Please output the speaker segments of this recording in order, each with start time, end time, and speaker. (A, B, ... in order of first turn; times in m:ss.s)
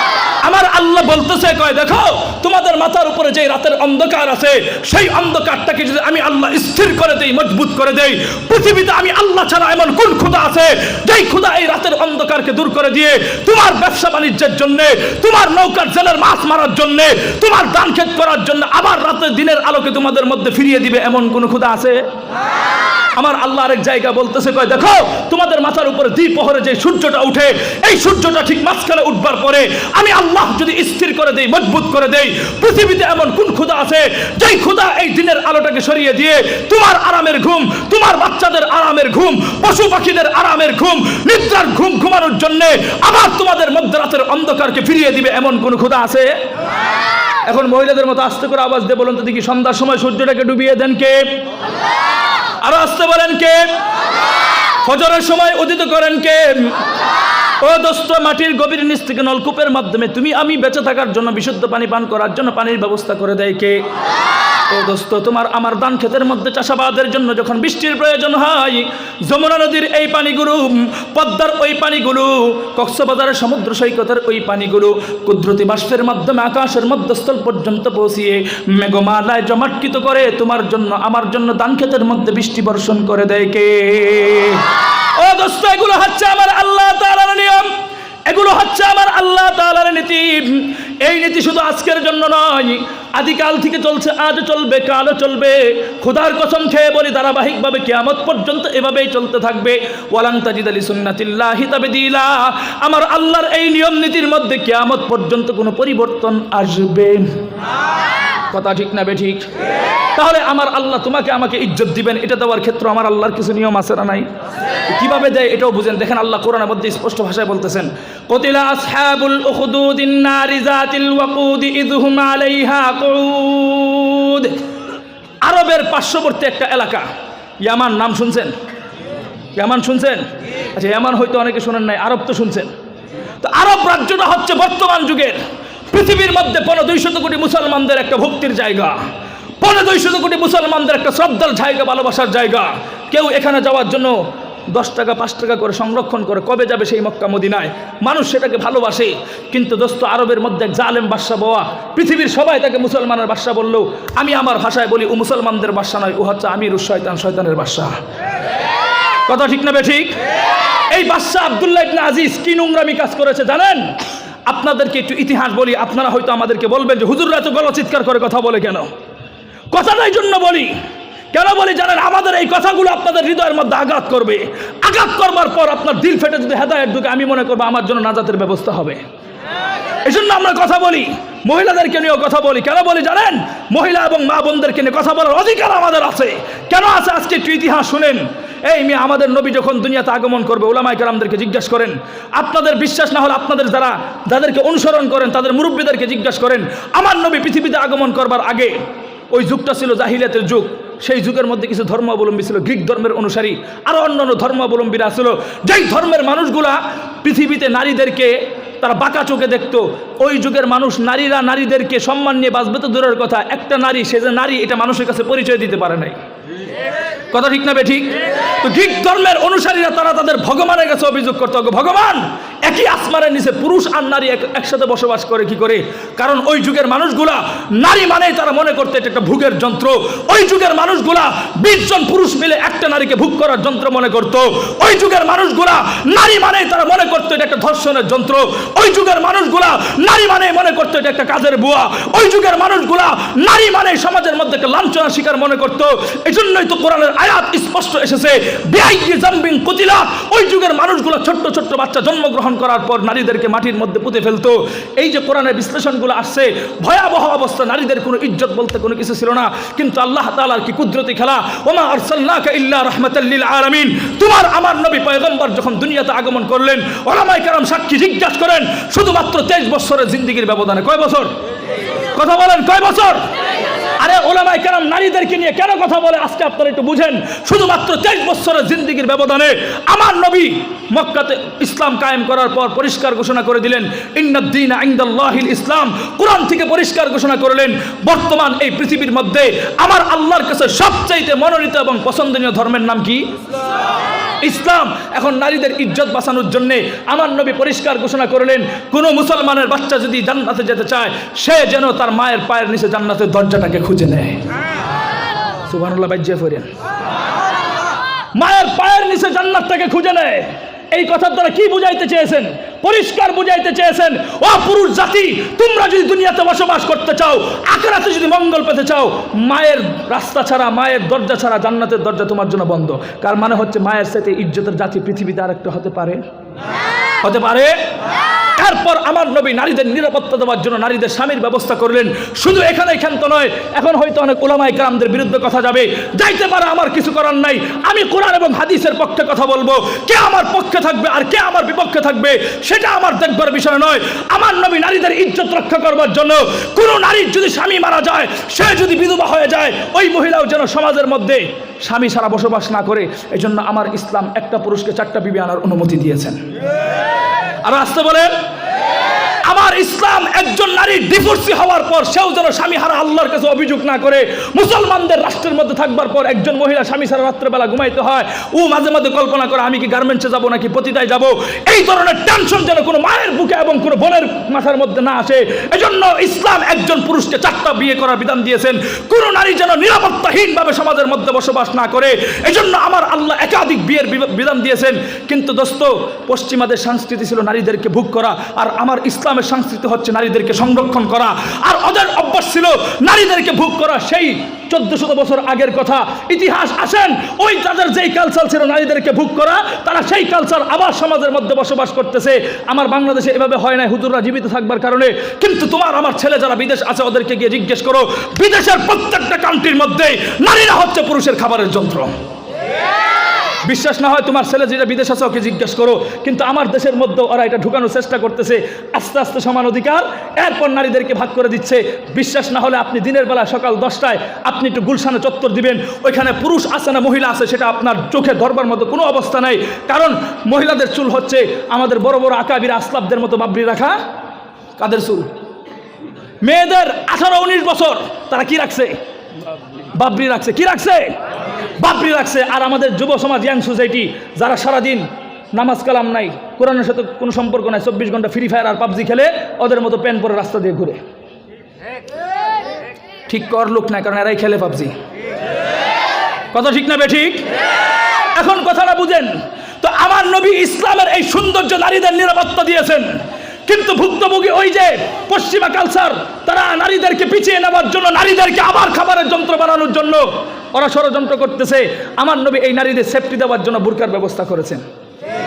0:00.4-0:22.0 A
0:23.2-0:46.3 A
0:47.5-0:51.3 A
0:52.6-0:53.7 A
0:54.8-0:56.8 A
0:57.6-1:03.8 A
1:04.7-1:24.7 A
1:25.2-1:27.7 A
1:28.3-1:47.3 A
1:48.5-1:49.4 A
1:50.2-1:54.3 A
1:54.9-2:04.6 A
2:05.4-2:07.1 A
2:07.6-2:08.5 A
2:09.6-2:12.7 A
2:13.4-2:15.4 A
2:15.9-2:19.0 A
2:19.6-2:24.1 A
2:24.7-2:37.9 A
2:39.3-2:40.2 A
2:40.9-2:43.8 A
2:44.5-2:48.9 A
2:49.7-2:50.7 A
2:51.3-2:59.0 A
3:00.0-3:18.8 A
3:19.3-3:36.2 A
3:37.3-4:31.3 A
4:32.2-4:33.2 A
4:34.0-4:53.2 A
4:54.4-5:04.4 A
5:05.7-5:06.7 A
5:08.4-5:26.2 A
5:27.2-5:27.8 A
5:28.6-5:56.4 A
5:57.6-5:58.3 A
5:59.4-6:52.1 A
6:53.6-7:14.0 A
7:14.8-7:15.3 A
7:16.4-7:19.0 A
7:20.0-7:21.1 A
7:21.8-7:31.0 A
7:33.3-7:34.9 A
7:36.5-7:37.4 A
7:38.4-7:43.1 A
7:43.7-7:54.8 A